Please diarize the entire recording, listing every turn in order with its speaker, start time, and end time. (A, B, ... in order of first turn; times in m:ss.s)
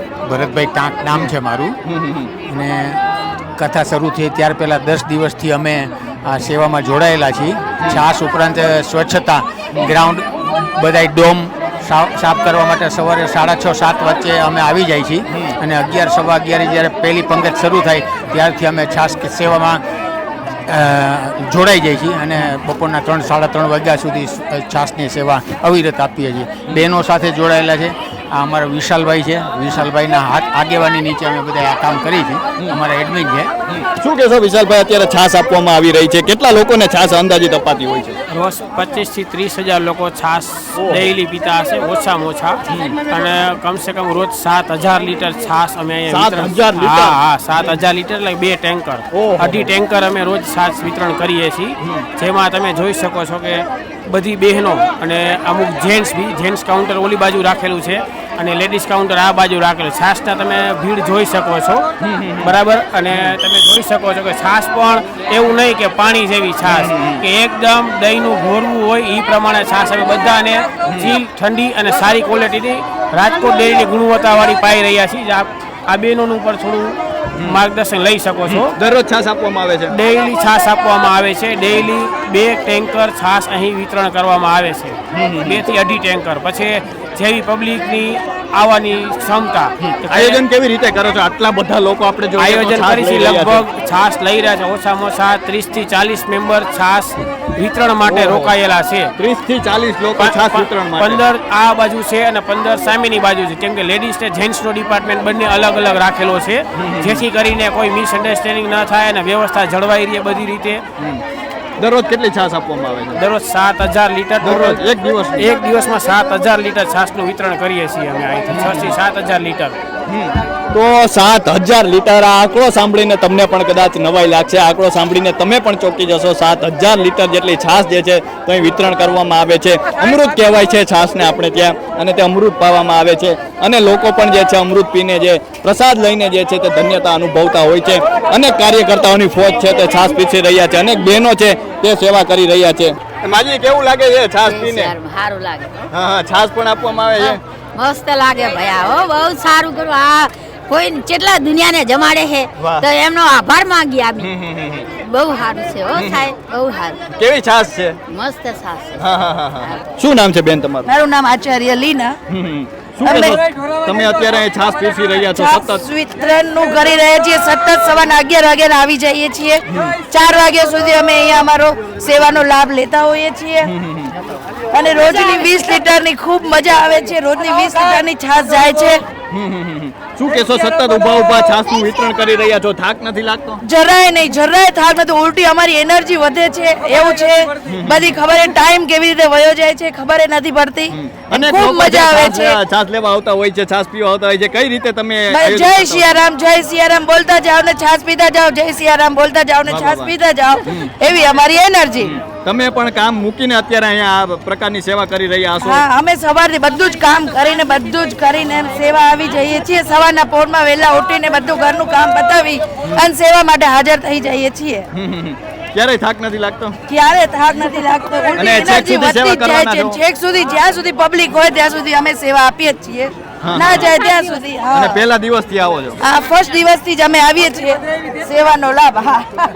0:00.2-0:01.8 A
0:01.8-0:02.3 B
0:02.5-0:03.0 A
0:03.6-0:19.8 A
0:15.3-0:15.5 B
0:20.7-0:33.5 A
0:33.7-0:38.2 B
0:38.3-1:01.8 C
0:40.8-0:41.1 B
0:42.7-0:43.0 B
0:46.1-0:47.7 B
0:49.1-0:49.7 B
1:02.0-1:02.5 B
1:02.4-1:18.7 C
1:06.6-1:07.2 B
1:18.5-1:19.9 B
1:19.9-1:30.4 C
1:25.1-1:25.6 B
1:29.8-1:33.6 B
1:32.4-1:39.1 C
1:38.0-1:38.5 B
1:39.2-1:41.2 B
1:40.2-1:50.8 C
1:46.8-1:47.2 B
1:51.8-1:53.2 B
1:53.2-1:54.8 C
1:54.4-1:55.5 B
1:55.4-1:59.8 C
1:58.5-1:58.9 B
2:00.1-2:24.9 B
2:24.4-2:25.7 D
2:25.9-2:27.4 B
2:27.2-2:34.3 D
2:32.6-2:32.9 B
2:34.2-2:34.9 B
2:35.0-2:37.0 D
2:35.9-2:36.3 B
2:37.2-2:38.0 B
2:38.1-2:39.0 D
2:39.0-2:40.9 B
2:40.8-2:42.2 E
2:42.3-2:45.8 B
2:43.0-2:43.4 E
2:45.3-2:53.7 E
2:49.7-2:49.9 B
2:53.6-2:54.1 B
2:54.7-2:59.0 E
2:59.3-3:03.6 B
3:03.6-3:12.6 E
3:07.7-3:08.2 B
3:10.9-3:16.2 B
3:15.3-3:22.1 E
3:19.6-3:20.1 B
3:22.0-3:25.9 B
3:25.6-3:34.9 E
3:34.9-3:36.8 B
3:36.9-3:45.0 E
3:38.4-3:40.0 B
3:43.4-3:44.0 B
3:44.7-3:46.0 B
3:46.0-3:49.3 E